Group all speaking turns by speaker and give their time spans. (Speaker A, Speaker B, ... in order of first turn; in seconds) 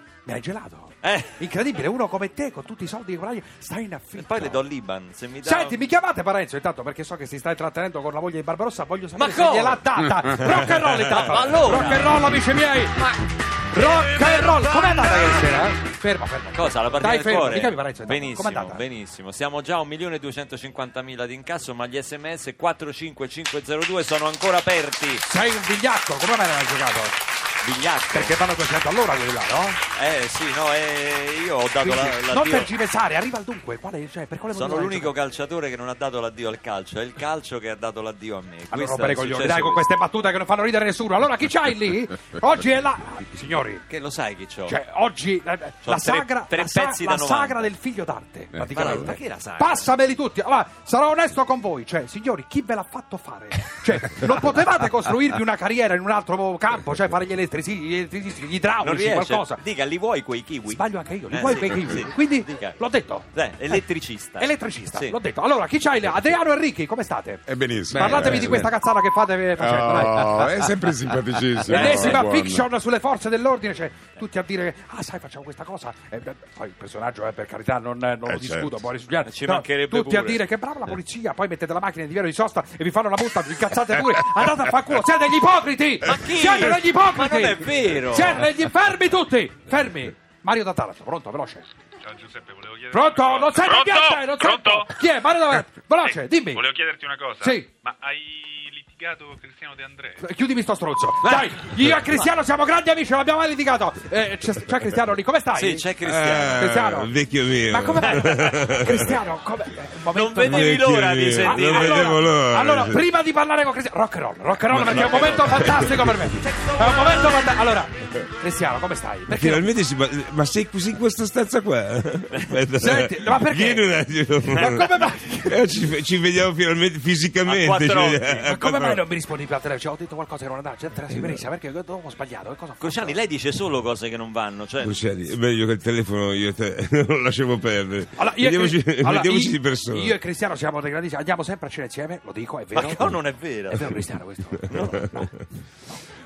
Speaker A: 0.2-4.6, 5.4-13.0, 13.7-18.8, 25.2-27.2, 28.1-29.8, 31.8-35.1, 38.7-43.8, 44.7-59.6, 60.7-63.8, 64.4-70.7, 71.7-91.7, 92.9-96.7, 97.4-97.7, 100.2-105.9, 106.5-107.1, 107.7-119.7, 122.8-123.9, 124.5-125.6, 128.5-133.2, 138.2-143.2, 143.7-145.3
Speaker B: 1.0-1.3, 4.2-5.8, 9.1-9.9, 10.4-12.3, 16.5-25.2, 27.6-28.4, 29.9-32.7, 34.5-39.8, 43.9-44.8, 45.8-47.7, 48.7-49.9, 58.8-62.8, 63.3-65.2, 71.6-72.3, 79.2-80.5, 86.0-88.5, 101.2-101.5, 105.5-106.8, 108.0-108.6, 110.1-112.2, 114.7-116.0, 116.6-117.3, 127.4-128.4, 132.8-135.0, 142.7-144.1
Speaker C: 67.5-68.7, 69.6-72.7, 78.3-78.7
Speaker D: 92.1-94.9, 96.0-100.2
Speaker E: 106.0-109.1, 110.4-113.1, 114.8-116.2, 119.3-129.1, 131.1-131.4, 134.8-140.2